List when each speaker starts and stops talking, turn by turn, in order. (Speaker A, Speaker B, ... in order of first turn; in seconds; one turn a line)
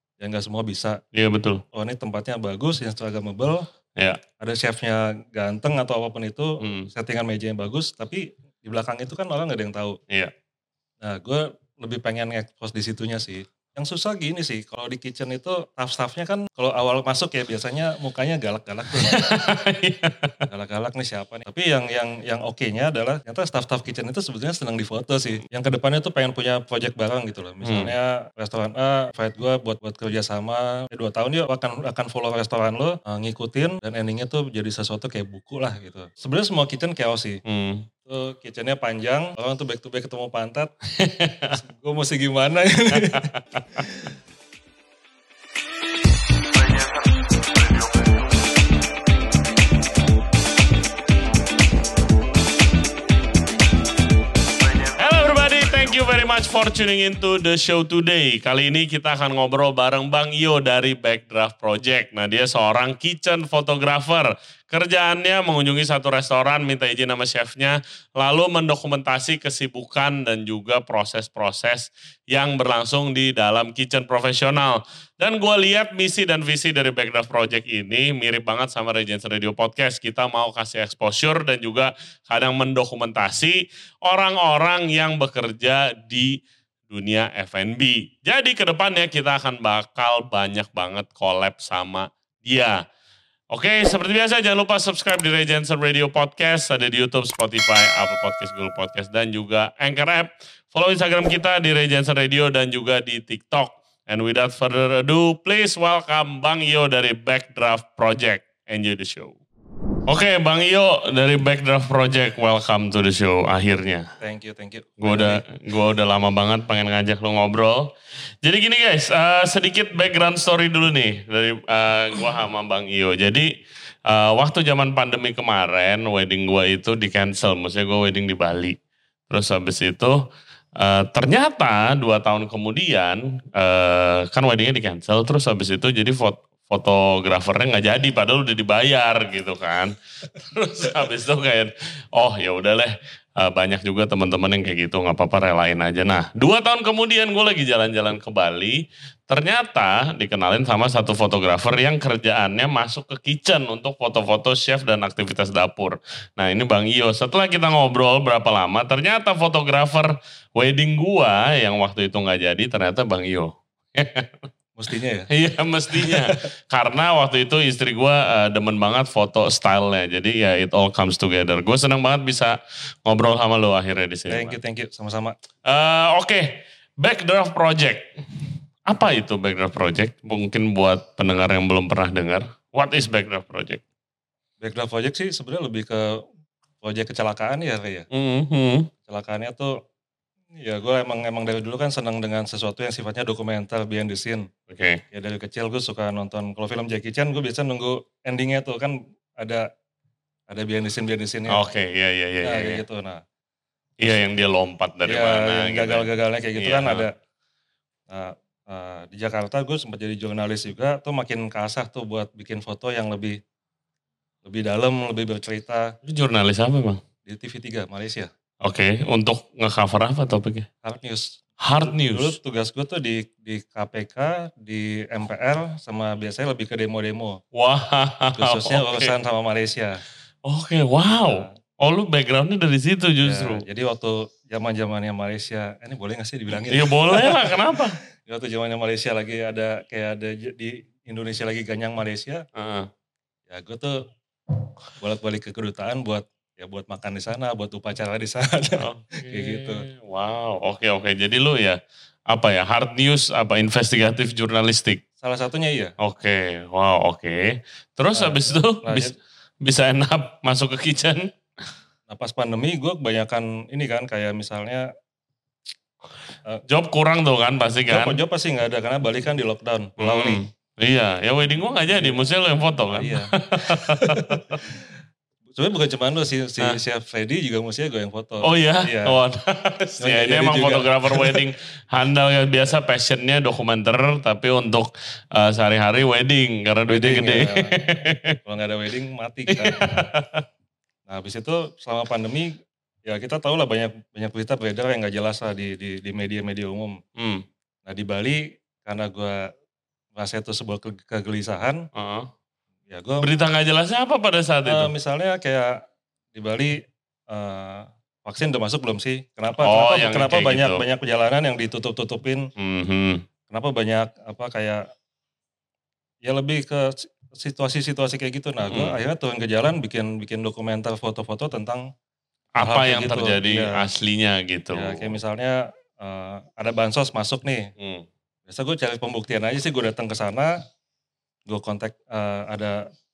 Speaker A: 0.2-1.0
Speaker B: 1.1-1.6
Speaker A: 1.7-3.6
Speaker A: 4.4-10.0
Speaker B: 6.6-6.9
Speaker A: 11.0-19.4
Speaker B: 18.9-20.4
Speaker A: 20.5-37.4
Speaker B: 27.6-27.9
Speaker B: 37.5-37.9
Speaker A: 38.0-40.7
Speaker B: 40.9-41.6
Speaker A: 41.5-44.1
Speaker B: 42.9-43.8
Speaker B: 54.8-92.8
Speaker B: 93.5-109.4
Speaker B: 110.1-114.1
Speaker A: 114.2-115.4
Speaker B: 115.0-117.9
Speaker B: 118.4-123.5
Speaker B: 124.1-128.8
Speaker B: 129.3-130.2
Speaker B: 130.8-164.4
Speaker A: 164.8-165.3
Speaker B: 165.3-174.6
Speaker A: 165.9-166.3
Speaker A: 174.3-175.3
Speaker B: 175.7-183.8
Speaker A: 184.6-186.1
Speaker A: 186.8-188.1
Speaker B: 188.1-188.9
Speaker A: 189.1-189.7
Speaker A: 190.6-194.5
Speaker B: 194.7-195.0
Speaker A: 195.1-199.7
Speaker A: 200.5-201.6
Speaker B: 201.5-202.8
Speaker A: 202.4-203.2
Speaker B: 204.0-207.0
Speaker A: 205.1-207.2
Speaker A: 208.1-213.4
Speaker A: 214.4-215.9
Speaker B: 216.0-217.0
Speaker A: 217.3-218.3
Speaker B: 218.6-220.7
Speaker A: 220.8-227.4
Speaker B: 221.6-222.4
Speaker B: 227.5-229.1
Speaker A: 228.4-230.0
Speaker B: 230.4-233.6
Speaker A: 231.1-231.5
Speaker A: 233.2-242.4
Speaker B: 236.5-238.0
Speaker B: 242.6-242.9
Speaker A: 243.5-244.0
Speaker A: 245.0-249.8
Speaker B: 248.8-255.0
Speaker A: 255.2-255.9
Speaker B: 256.0-261.3
Speaker A: 258.1-259.1
Speaker A: 262.1-264.9
Speaker B: 266.7-268.2
Speaker A: 267.9-270.4
Speaker B: 270.0-274.6
Speaker A: 271.9-272.2
Speaker A: 272.9-274.8
Speaker A: 275.6-279.2
Speaker B: 278.4-288.4
Speaker A: 280.0-281.5
Speaker A: 286.9-287.9
Speaker A: 288.4-290.1
Speaker B: 289.5-290.4
Speaker A: 291.1-292.5
Speaker A: 293.1-297.0
Speaker B: 297.2-297.4
Speaker A: 297.9-299.4
Speaker A: 300.1-301.8
Speaker B: 301.9-302.3
Speaker A: 302.9-303.3
Speaker B: 303.2-304.9
Speaker A: 304.7-305.7
Speaker A: 306.4-306.8
Speaker A: 307.3-312.5
Speaker B: 309.6-310.8
Speaker B: 312.6-313.2
Speaker A: 313.5-314.8
Speaker A: 316.2-321.9
Speaker B: 318.7-318.9
Speaker B: 322.6-325.2
Speaker A: 322.6-323.8
Speaker A: 324.7-327.7
Speaker B: 327.8-328.1
Speaker A: 328.5-330.5
Speaker A: 331.5-332.8